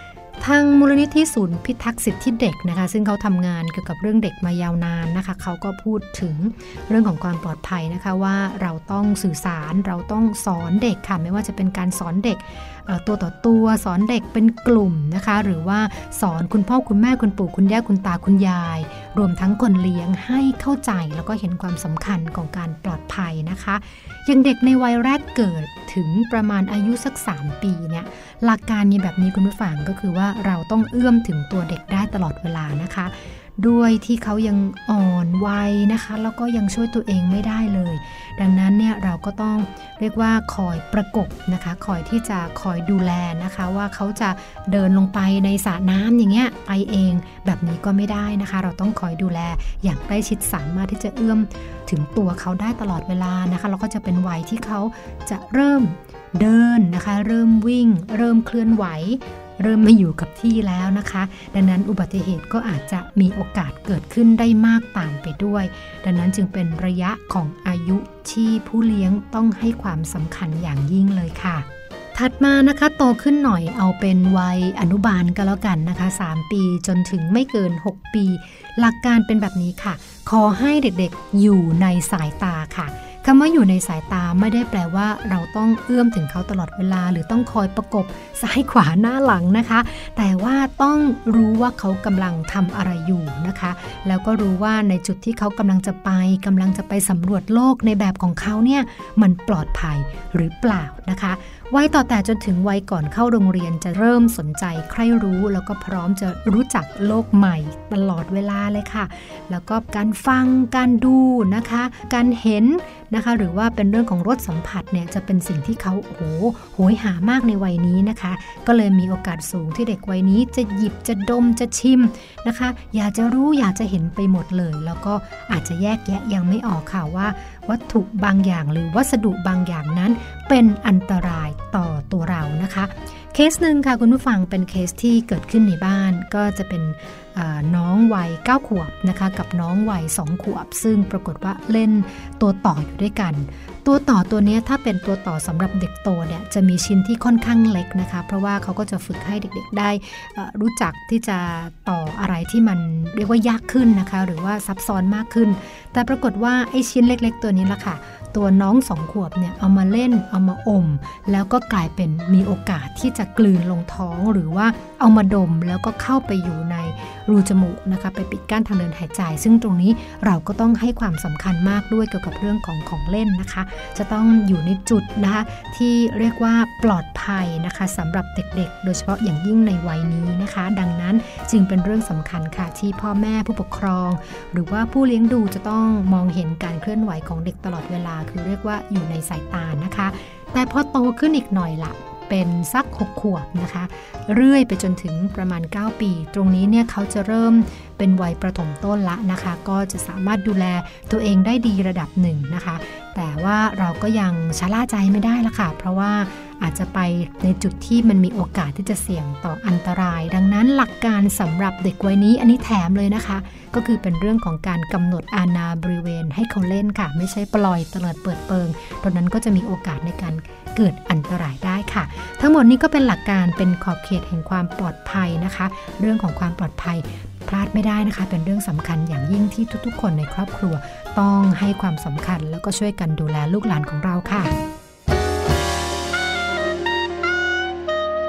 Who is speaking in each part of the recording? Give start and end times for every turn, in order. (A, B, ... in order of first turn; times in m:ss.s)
0:00.4-3:54.5 A